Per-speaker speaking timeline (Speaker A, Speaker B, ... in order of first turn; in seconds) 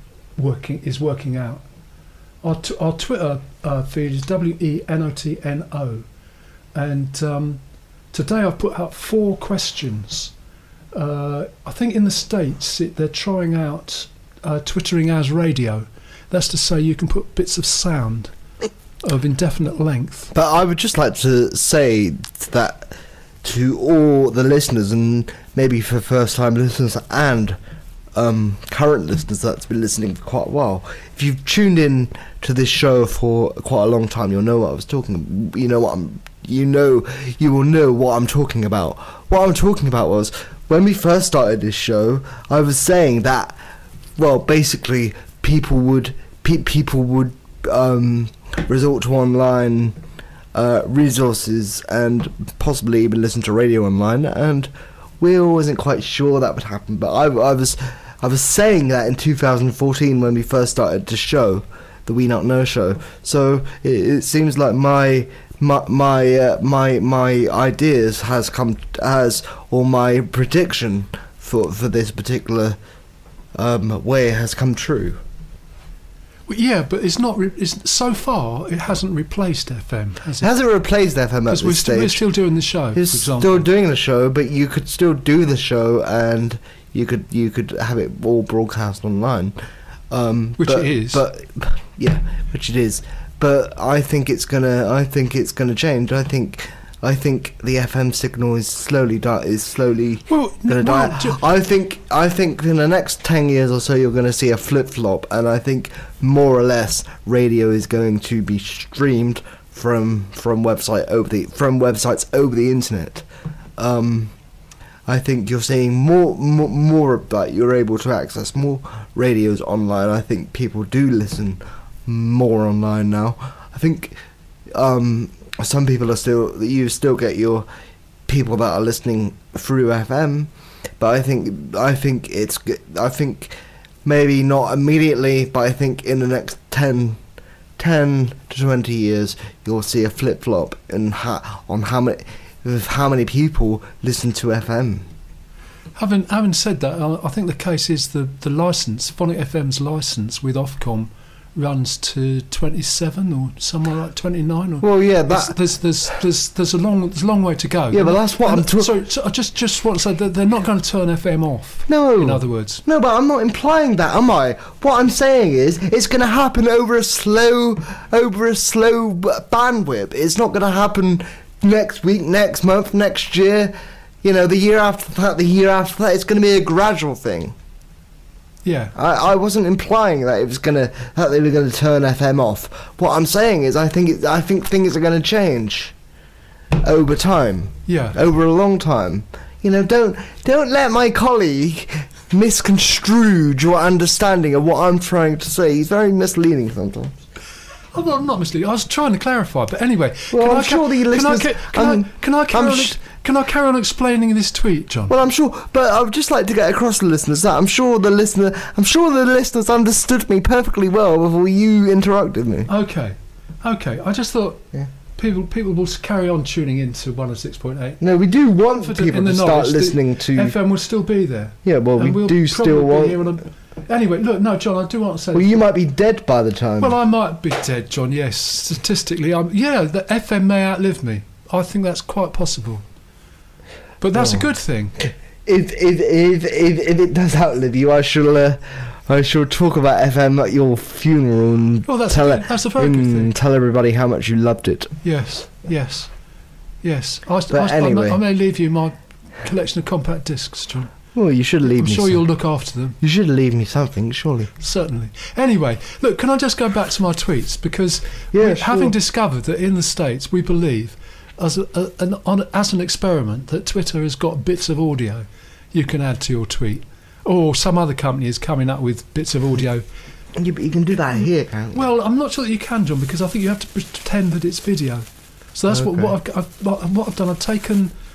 Speaker A: 0.4-1.6, 2.4-6.0, 6.7-10.3, 10.9-18.3, 19.0-20.3, 76.5-80.5, 81.5-83.7, 90.6-91.2, 100.3-101.4, 145.9-162.8, 178.6-178.9, 187.9-188.2, 197.9-205.1, 212.7-218.0, 218.8-225.6, 226.8-232.8, 234.0-235.0, 241.8-243.3, 245.0-246.1, 246.8-251.0, 251.7-253.0, 254.6-269.9, 271.7-277.9
Speaker B: 20.3-27.6, 28.1-43.6, 44.2-50.0, 50.5-72.8, 73.5-75.2, 80.4-82.2, 82.9-89.5, 90.1-113.2, 113.8-114.3, 115.0-124.2, 124.7-127.7, 128.3-137.2, 137.8-145.0, 154.8-155.6, 157.9-158.9, 161.9-177.5, 178.9-185.9, 186.8-197.1, 200.3-203.0, 205.1-212.7, 218.0-220.6, 221.6-223.2, 225.3-226.9, 234.1-244.9, 247.5-248.2, 251.1-252.2, 253.0-254.5, 258.3-258.9, 270.3-271.9, 275.7-276.1